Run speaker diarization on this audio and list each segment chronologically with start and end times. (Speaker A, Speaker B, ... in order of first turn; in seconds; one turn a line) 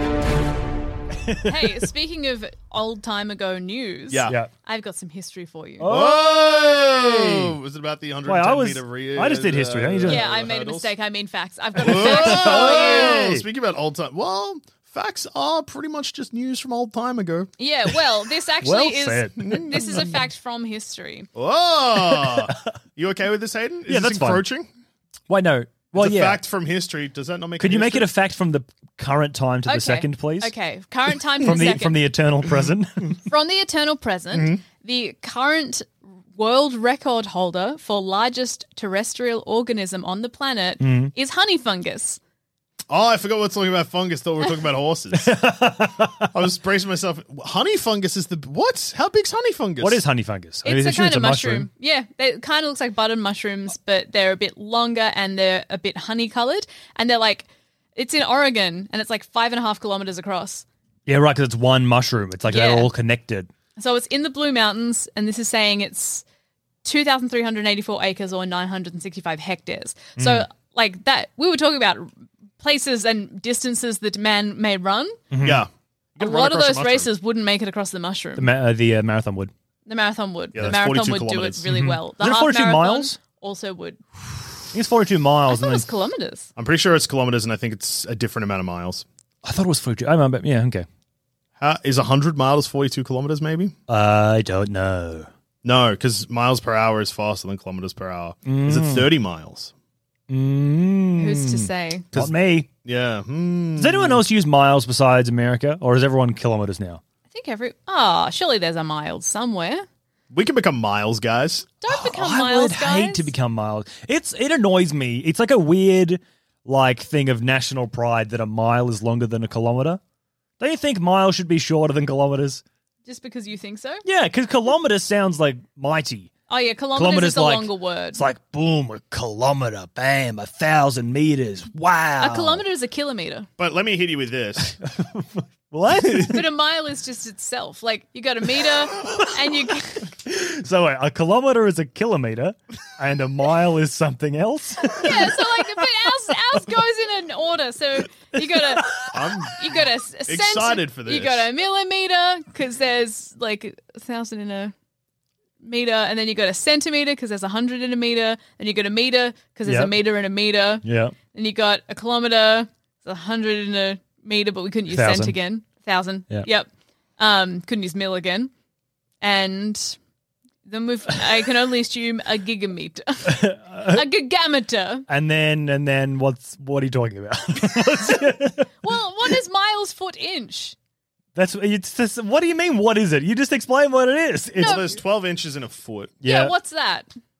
Speaker A: 1.1-1.9
Speaker B: 1.4-5.9
Speaker C: 4.1-4.4
Speaker A: 5.8-7.5
Speaker C: 5.8-10.9
Speaker A: 8.2-10.2
Speaker B: 10.1-13.3
Speaker A: 11.8-13.4
Speaker C: 11.8-17.5
Speaker B: 17.6-21.3
Speaker A: 18.6-19.7
Speaker C: 19.4-20.2
Speaker C: 21.3-24.7
Speaker A: 22.0-22.7
Speaker A: 23.9-24.4
Speaker A: 25.3-26.4
Speaker C: 25.9-28.1
Speaker A: 27.6-30.5
Speaker B: 29.7-32.1
Speaker A: 31.4-33.2
Speaker B: 33.2-42.2
Speaker C: 34.3-34.6
Speaker A: 40.8-41.1
Speaker C: 42.9-45.4
Speaker A: 45.1-46.3
Speaker C: 46.3-50.0
Speaker A: 49.8-51.7
Speaker B: 50.6-60.6
Speaker A: 61.0-63.5
Speaker B: 62.5-62.9
Speaker B: 63.8-66.2
Speaker B: 66.8-72.1
Speaker A: 70.2-70.5
Speaker B: 72.6-75.2
Speaker A: 75.3-75.7
Speaker C: 75.4-77.1
Speaker B: 76.2-78.5
Speaker A: 78.4-79.5
Speaker B: 79.8-84.0
Speaker C: 80.5-81.6
Speaker A: 81.7-83.2
Speaker A: 84.7-85.9
Speaker B: 85.5-86.5
Speaker C: 86.6-89.0
Speaker A: 89.4-90.9
Speaker C: 91.6-93.7
Speaker A: 93.9-95.3
Speaker C: 95.6-99.7
Speaker A: 98.5-99.1
Speaker A: 100.3-102.7
Speaker B: 101.2-102.1
Speaker C: 102.1-104.2
Speaker A: 103.8-107.0
Speaker B: 107.3-109.8
Speaker C: 110.3-111.7
Speaker B: 111.8-113.3
Speaker A: 111.9-120.0
Speaker A: 120.6-122.6
Speaker B: 123.0-124.0
Speaker A: 124.0-126.3
Speaker B: 126.5-128.2
Speaker A: 126.9-132.6
Speaker B: 132.2-133.5
Speaker C: 133.6-134.8
Speaker A: 134.6-136.5
Speaker B: 136.3-140.1
Speaker A: 139.0-146.4
Speaker B: 144.8-154.7
Speaker A: 148.3-149.3
Speaker C: 149.1-149.7
Speaker C: 150.3-151.5
Speaker B: 155.6-168.5
Speaker A: 159.6-159.9
Speaker A: 160.8-161.1
Speaker A: 164.9-165.4
Speaker B: 169.2-170.0
Speaker B: 170.7-175.1
Speaker A: 173.2-174.1
Speaker A: 175.1-178.7
Speaker B: 178.8-180.7
Speaker A: 181.3-184.8
Speaker C: 184.6-186.2
Speaker B: 184.6-185.0
Speaker A: 186.2-186.5
Speaker B: 186.2-187.1